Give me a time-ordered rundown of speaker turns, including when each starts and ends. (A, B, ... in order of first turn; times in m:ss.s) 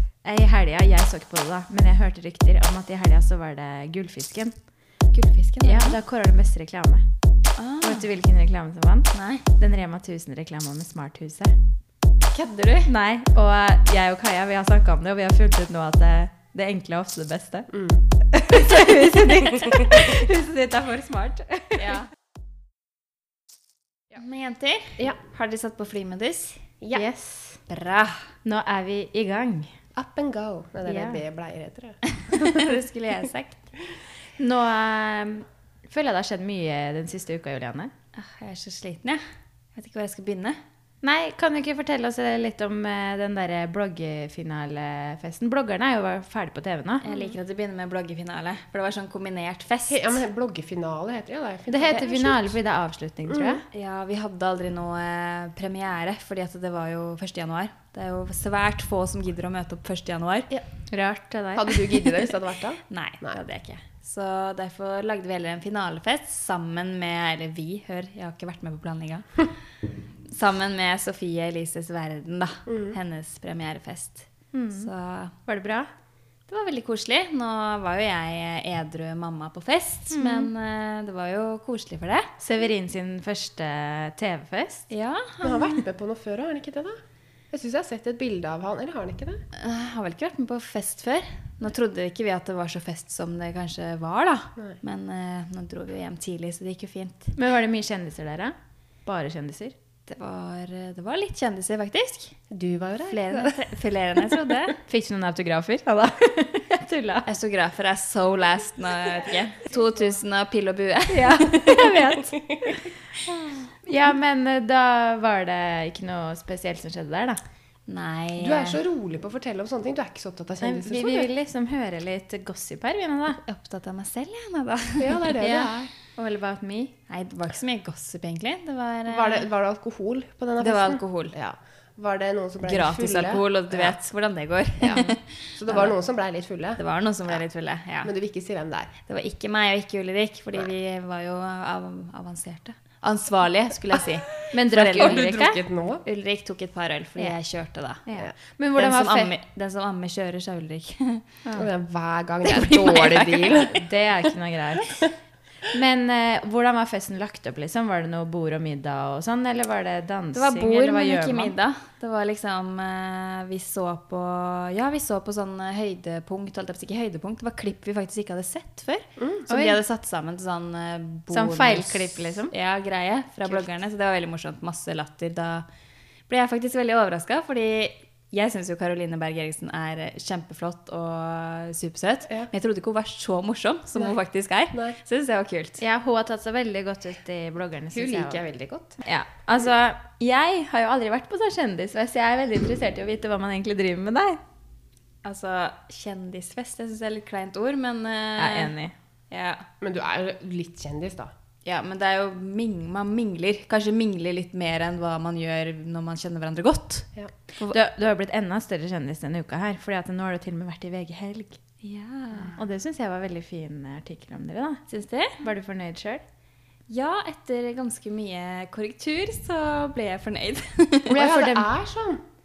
0:00.2-0:04.6 A
0:05.1-0:06.0 B
0:05.6-0:07.0 A
0:07.6-0:08.1 B
0:07.8-0:11.6 A
0:09.1-0:09.4 B
0:12.3-0:12.9 B
0:12.9-0:17.7 A
0:17.7-0:18.0 C
0:18.3-0:22.0 A
0:21.8-0:22.1 B
0:24.2-0:26.6 B
0:26.9-0:27.6 A
0:27.7-0:28.3 B
0:28.4-0:29.7 A
0:30.0-0:32.8 C
0:30.9-0:31.2 A
0:32.2-0:33.6 B
0:34.4-0:37.9 A
0:38.2-0:39.2 B
0:39.8-0:40.6 B
0:41.0-0:47.3 A
0:47.0-0:50.2 B
0:49.9-0:52.5 C
0:51.7-0:53.6 A
0:53.3-0:53.6 C
0:53.7-1:00.5 B
1:00.9-1:02.0 A
1:01.6-1:03.4 C
1:02.9-1:09.5 B
1:10.3-1:15.4 B
1:12.7-1:13.0 C
1:14.5-1:14.9 A
1:15.5-1:15.9 A
1:16.5-1:22.3 B
1:20.1-1:20.5 A
1:22.4-1:24.9 A
1:24.9-1:25.8 B
1:25.4-1:27.0 C
1:27.5-1:29.4 C
1:29.5-1:37.4 B
1:37.4-1:39.8 A
1:40.1-1:42.4 B
1:42.5-1:43.6 C
1:43.0-1:44.8 B
1:44.9-1:47.3 A
1:47.3-1:52.0 B
1:51.1-1:52.8 A
1:53.9-1:57.4 A
1:57.9-1:58.8 B
1:58.4-2:01.3 C
2:00.6-2:03.4 A
2:03.4-2:05.4 B
2:05.0-2:05.9 C
2:05.4-2:07.0 A
2:07.1-2:09.5 B
2:09.1-2:14.0 C
2:10.6-2:11.4 B
2:12.6-2:16.0 B
2:14.8-2:16.8 C
2:16.8-2:18.1 B
2:18.0-2:18.9 C
2:19.1-2:25.3 B
2:24.5-2:25.6 A
2:25.0-2:26.0 C
2:26.0-2:28.0 B
2:28.1-2:29.3 A
2:28.8-2:31.5 B
2:31.6-2:33.7 C
2:32.4-2:33.7 B
2:33.7-2:35.0 A
2:35.7-2:41.5 A
2:40.3-2:55.7 B
2:49.2-2:49.4 C
2:49.5-2:49.8 A
2:51.3-2:52.5 A
2:56.3-3:05.8 B
3:05.8-3:08.4 A
3:07.9-3:09.0 C
3:09.0-3:14.4 A
3:15.2-3:18.7 B
3:18.4-3:18.9 A
3:19.3-3:19.7 B
3:19.8-3:21.3 C
3:21.6-3:27.8 B
3:27.6-3:31.6 A
3:31.8-3:32.6 B
3:32.6-3:34.8 A
3:34.9-3:35.4 B
3:35.4-3:36.2 A
3:36.9-3:41.2 B
3:41.1-3:42.2 C
3:41.1-3:41.7 A